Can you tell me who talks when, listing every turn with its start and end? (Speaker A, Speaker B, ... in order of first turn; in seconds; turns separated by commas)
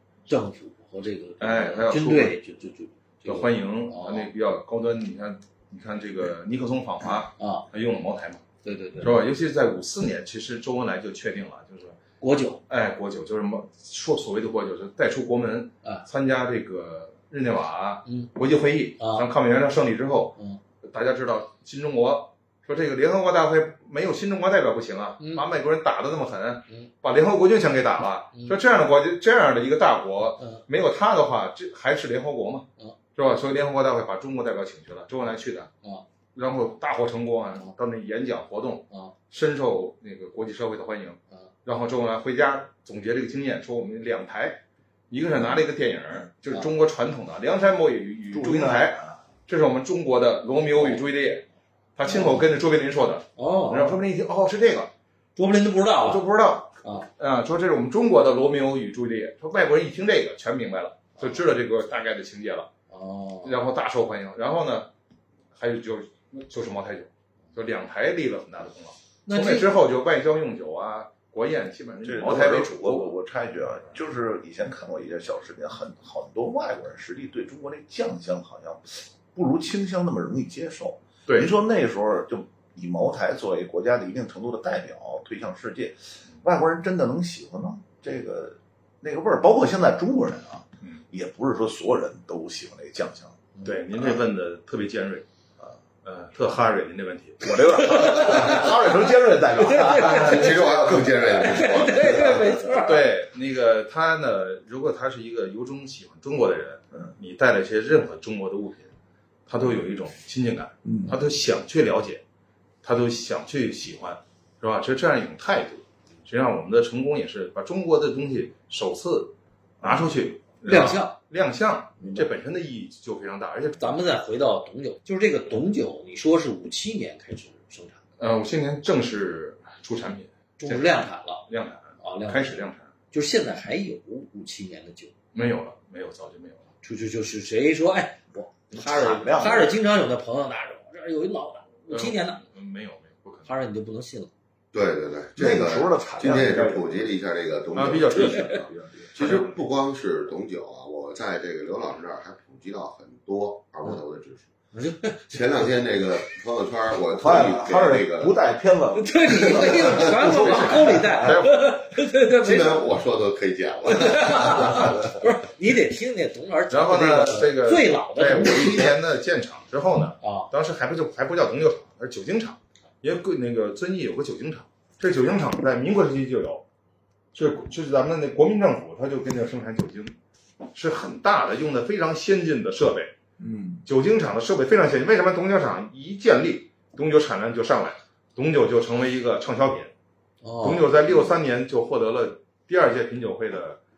Speaker A: 0.3-4.3, Speaker B: 1.4-2.4, Speaker B: 3.2-8.4, Speaker A: 7.4-7.6, Speaker A: 8.6-9.2, Speaker B: 9.0-12.0, Speaker A: 12.2-12.6, Speaker B: 12.7-35.7, Speaker A: 18.1-18.3, Speaker A: 19.0-19.3, Speaker A: 25.2-25.4, Speaker B: 36.3-51.4, Speaker C: 48.3-49.2, Speaker B: 52.0-54.9, Speaker A: 52.0-52.4, Speaker A: 53.4-54.0, Speaker A: 55.4-56.2, Speaker B: 56.0-62.7, Speaker A: 56.8-57.1, Speaker A: 62.9-63.6, Speaker B: 63.4-64.9, Speaker B: 65.5-73.2, Speaker A: 69.2-69.7, Speaker C: 72.0-93.4, Speaker B: 81.3-81.5, Speaker A: 93.5-93.8, Speaker B: 93.6-95.2, Speaker B: 96.0-97.5, Speaker C: 97.4-102.5, Speaker A: 97.8-100.6, Speaker D: 99.9-102.7, Speaker A: 101.2-103.1, Speaker B: 102.8-108.9, Speaker B: 109.5-112.2, Speaker C: 110.8-111.2, Speaker B: 112.8-123.9, Speaker C: 119.8-120.1, Speaker A: 120.6-121.1, Speaker C: 122.0-122.3, Speaker A: 123.8-128.0, Speaker B: 128.2-132.9, Speaker A: 130.6-131.4, Speaker A: 132.0-135.1, Speaker B: 135.3-136.6, Speaker A: 136.8-142.4, Speaker C: 138.7-139.8, Speaker B: 141.9-143.5, Speaker A: 143.4-144.3, Speaker D: 144.7-154.5, Speaker C: 145.3-147.1, Speaker B: 147.7-149.5, Speaker C: 148.1-149.6, Speaker A: 154.7-155.4, Speaker D: 155.3-158.4, Speaker C: 157.1-161.4, Speaker A: 158.9-162.9, Speaker D: 159.6-160.1, Speaker B: 160.2-161.8, Speaker D: 162.4-165.0, Speaker A: 163.8-168.9, Speaker B: 166.7-176.6, Speaker A: 170.2-170.5, Speaker B: 177.3-180.2, Speaker B: 180.7-183.1, Speaker C: 183.4-183.8, Speaker B: 183.8-189.9, Speaker A: 190.4-190.9, Speaker B: 190.6-193.8